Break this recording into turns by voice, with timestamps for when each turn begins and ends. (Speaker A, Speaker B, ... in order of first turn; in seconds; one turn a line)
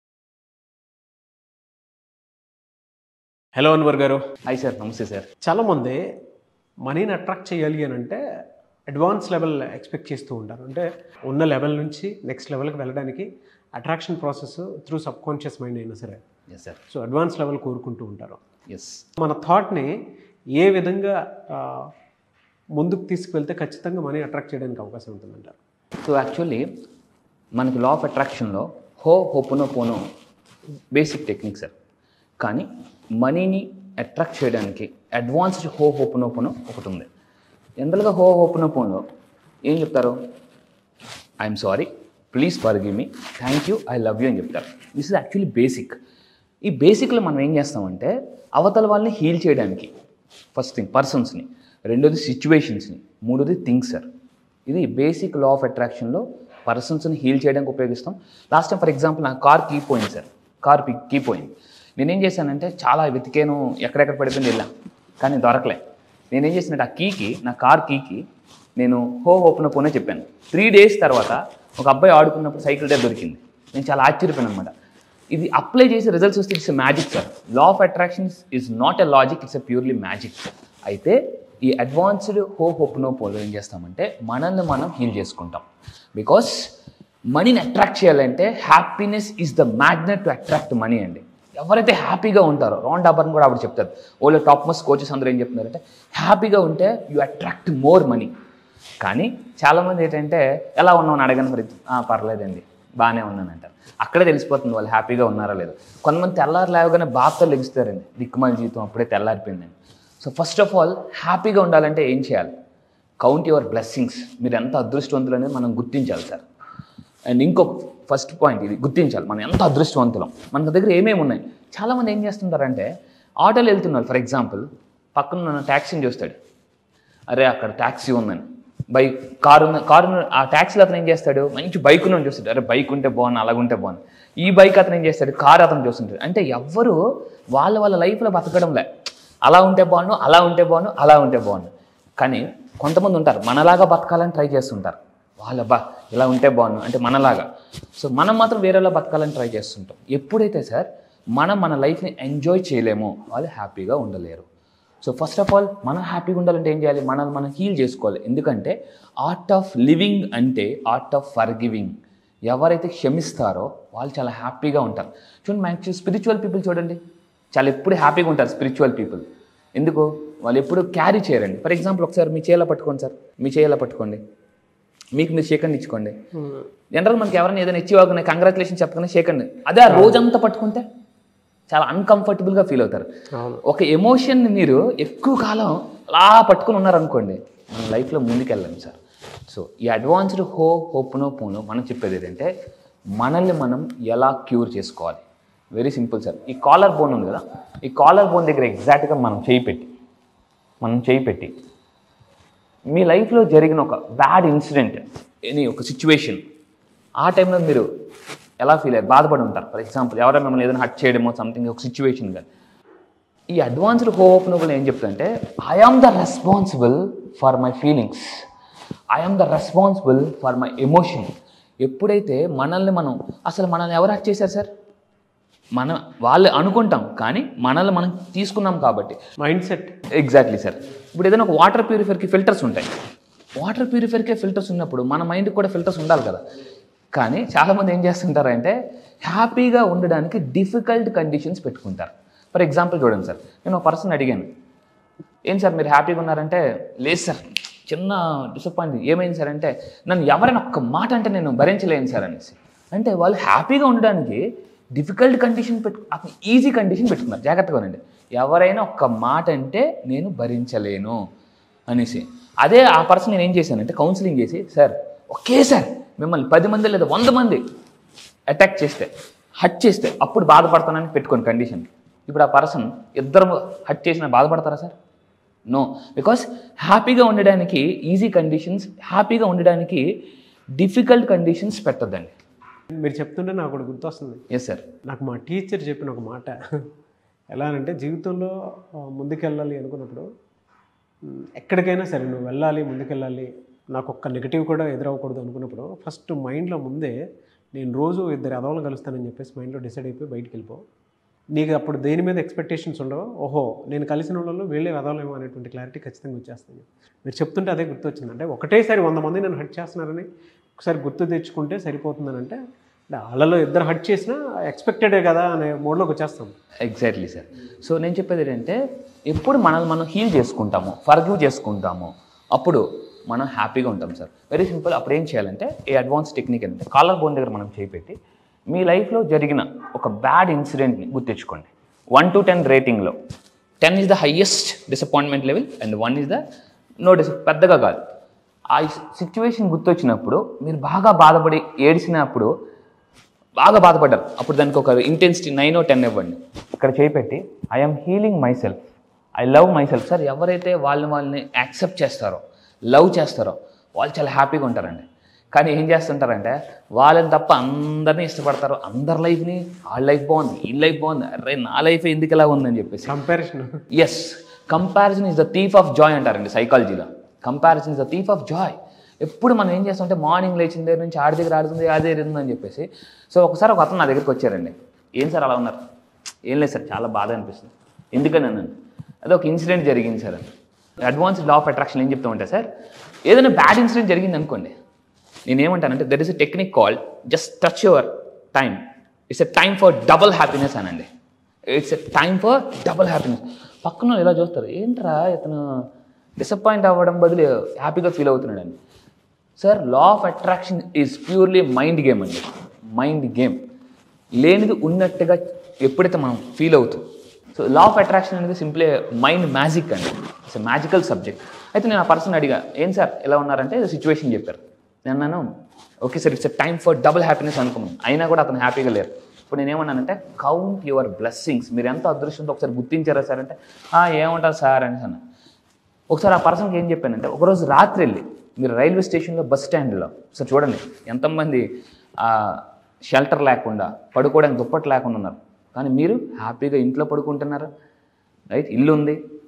Speaker A: 3.6-4.2
Speaker B: 4.5-5.3
Speaker A: 5.5-6.0
Speaker A: 6.9-8.2
Speaker A: 8.9-16.2
Speaker B: 16.5-16.8
Speaker A: 16.9-18.4
Speaker B: 18.7-19.0
Speaker A: 19.2-19.9
Speaker A: 20.6-21.8
Speaker A: 22.8-25.6
Speaker B: 26.1-26.6
Speaker B: 27.6-30.0
Speaker B: 31.0-31.7
Speaker B: 33.2-37.0
Speaker B: 37.9-39.0
Speaker B: 39.7-40.1
Speaker B: 41.5-45.9
Speaker B: 46.7-48.1
Speaker B: 48.6-49.9
Speaker B: 50.6-54.0
Speaker B: 54.7-61.5
Speaker B: 62.0-64.7
Speaker B: 65.2-65.8
Speaker B: 66.4-68.2
Speaker B: 68.8-74.7
Speaker B: 75.4-81.2
Speaker B: 81.7-85.6
Speaker B: 86.2-86.5
Speaker B: 87.4-98.3
Speaker B: 99.1-109.7
Speaker B: 110.2-112.5
Speaker B: 113.3-116.4
Speaker B: 117.4-122.9
Speaker B: 123.5-124.6
Speaker B: 125.2-126.3
Speaker B: 127.4-128.4
Speaker B: 129.0-136.9
Speaker B: 137.6-138.8
Speaker B: 139.5-141.7
Speaker B: 142.2-147.4
Speaker B: 148.0-150.8
Speaker B: 151.4-154.4
Speaker B: 155.1-158.7
Speaker B: 159.3-161.9
Speaker B: 162.5-167.0
Speaker B: 167.6-169.2
Speaker B: 169.8-174.2
Speaker B: 175.2-176.1
Speaker A: 176.4-176.6
Speaker B: 177.0-180.8
Speaker A: 179.9-180.2
Speaker B: 181.7-183.1
Speaker A: 183.3-183.6
Speaker B: 183.7-189.0
Speaker B: 189.5-192.5
Speaker B: 193.2-195.2
Speaker B: 195.8-199.9
Speaker B: 200.8-201.5
Speaker B: 203.0-205.0
Speaker B: 205.6-206.4
Speaker B: 207.3-207.8
Speaker B: 208.7-212.5
Speaker B: 213.6-218.2
Speaker B: 219.2-221.3
Speaker B: 221.9-224.7
Speaker B: 225.8-229.2
Speaker A: 229.4-229.9
Speaker B: 230.2-232.9
Speaker B: 233.6-236.4
Speaker B: 237.2-238.7
Speaker B: 239.2-244.4
Speaker B: 245.5-247.4
Speaker B: 247.9-254.4
Speaker B: 255.0-261.1
Speaker B: 261.9-267.6
Speaker B: 268.6-269.1
Speaker B: 269.6-274.9
Speaker B: 275.7-280.0
Speaker B: 280.8-282.3
Speaker A: 283.0-284.4
Speaker B: 284.5-284.8
Speaker A: 285.1-286.5
Speaker A: 287.5-288.5
Speaker A: 289.1-290.2
Speaker A: 291.6-297.1
Speaker A: 297.8-300.8
Speaker A: 301.6-310.3
Speaker A: 310.8-312.6
Speaker A: 313.1-316.5
Speaker B: 316.9-318.8
Speaker B: 319.3-328.1
Speaker B: 328.7-333.1
Speaker B: 333.8-336.4
Speaker B: 337.1-338.0
Speaker B: 338.8-342.5
Speaker B: 343.6-348.8
Speaker B: 349.4-352.4
Speaker B: 352.9-363.1
Speaker A: 363.0-363.7
Speaker B: 363.9-368.7
Speaker B: 369.2-375.8
Speaker B: 376.6-378.7
Speaker B: 379.3-380.4
Speaker B: 381.1-382.6
Speaker B: 383.3-384.7
Speaker B: 385.5-388.8
Speaker B: 389.4-391.1
Speaker B: 391.8-395.6
Speaker B: 396.4-398.8
Speaker B: 399.6-402.4
Speaker B: 403.0-403.6
Speaker B: 404.4-405.4
Speaker B: 405.9-407.0
Speaker B: 407.6-414.6
Speaker B: 415.1-415.4
Speaker B: 416.1-425.2
Speaker B: 426.2-431.6
Speaker B: 432.2-432.6
Speaker B: 433.1-437.7
Speaker B: 438.6-439.2